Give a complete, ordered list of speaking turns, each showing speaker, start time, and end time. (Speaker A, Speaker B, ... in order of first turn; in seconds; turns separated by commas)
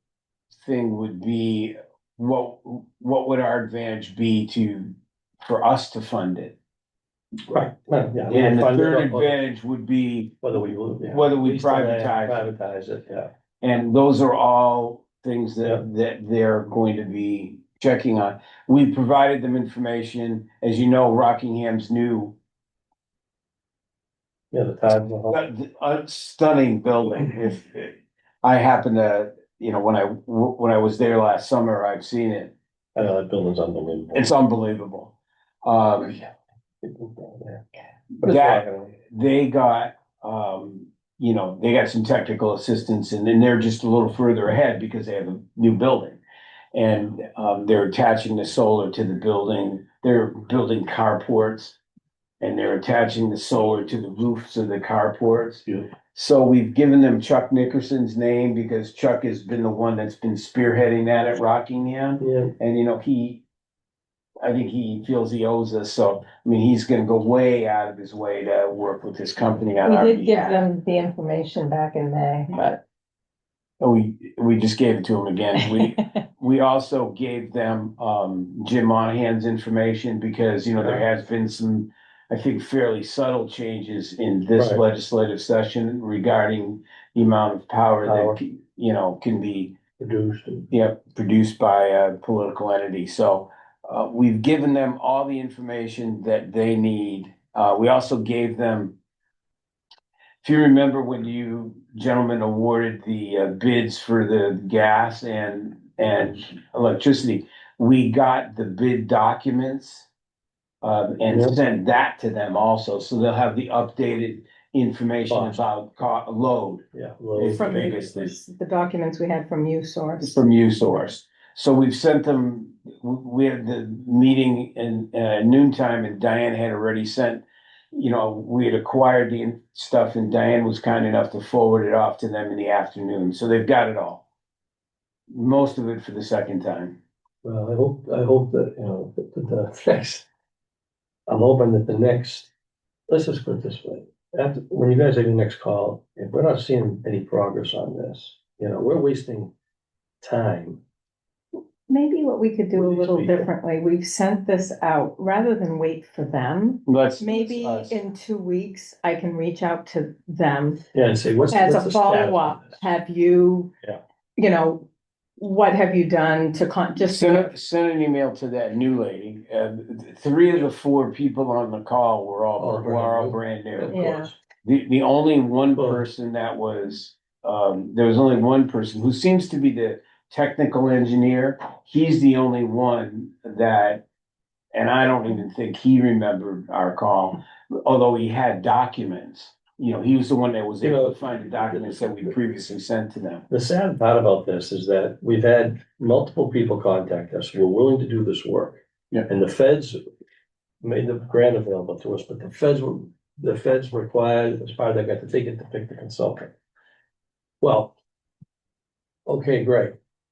Speaker A: 0.6-6.5, Speaker B: 7.5-9.4, Speaker A: 8.3-12.5, Speaker B: 10.4-13.3, Speaker A: 13.6-22.4, Speaker B: 24.5-25.4, Speaker A: 25.3-32.5, Speaker B: 33.0-34.3, Speaker A: 34.1-36.2, Speaker B: 36.8-37.6, Speaker B: 38.2-39.0, Speaker A: 38.2-46.2, Speaker A: 46.7-51.8, Speaker A: 52.4-63.4, Speaker B: 62.2-62.5, Speaker A: 64.4-70.6, Speaker C: 69.8-72.5, Speaker A: 72.5-72.8, Speaker A: 73.8-89.8, Speaker C: 75.6-75.9, Speaker B: 84.6-84.8, Speaker B: 88.0-88.4, Speaker B: 90.0-90.7, Speaker A: 90.7-99.0, Speaker A: 100.4-110.1, Speaker A: 110.8-118.3, Speaker B: 111.3-111.6, Speaker B: 115.3-115.6, Speaker B: 116.9-118.1, Speaker C: 117.5-120.4, Speaker A: 120.2-134.2, Speaker A: 135.3-137.0, Speaker B: 137.4-140.2, Speaker B: 141.3-142.5, Speaker B: 143.1-149.5, Speaker B: 150.2-150.8, Speaker C: 151.9-160.8, Speaker B: 152.7-153.5, Speaker A: 156.9-157.3, Speaker B: 157.4-158.0, Speaker B: 160.9-162.8, Speaker C: 161.5-163.7, Speaker C: 164.4-167.5, Speaker A: 167.0-174.0, Speaker B: 172.6-174.3, Speaker C: 173.9-174.3, Speaker A: 174.6-184.0, Speaker B: 175.8-176.0, Speaker A: 184.7-193.4, Speaker B: 190.8-192.3, Speaker B: 193.5-200.0, Speaker B: 200.8-206.5, Speaker B: 207.6-207.9, Speaker B: 209.3-209.9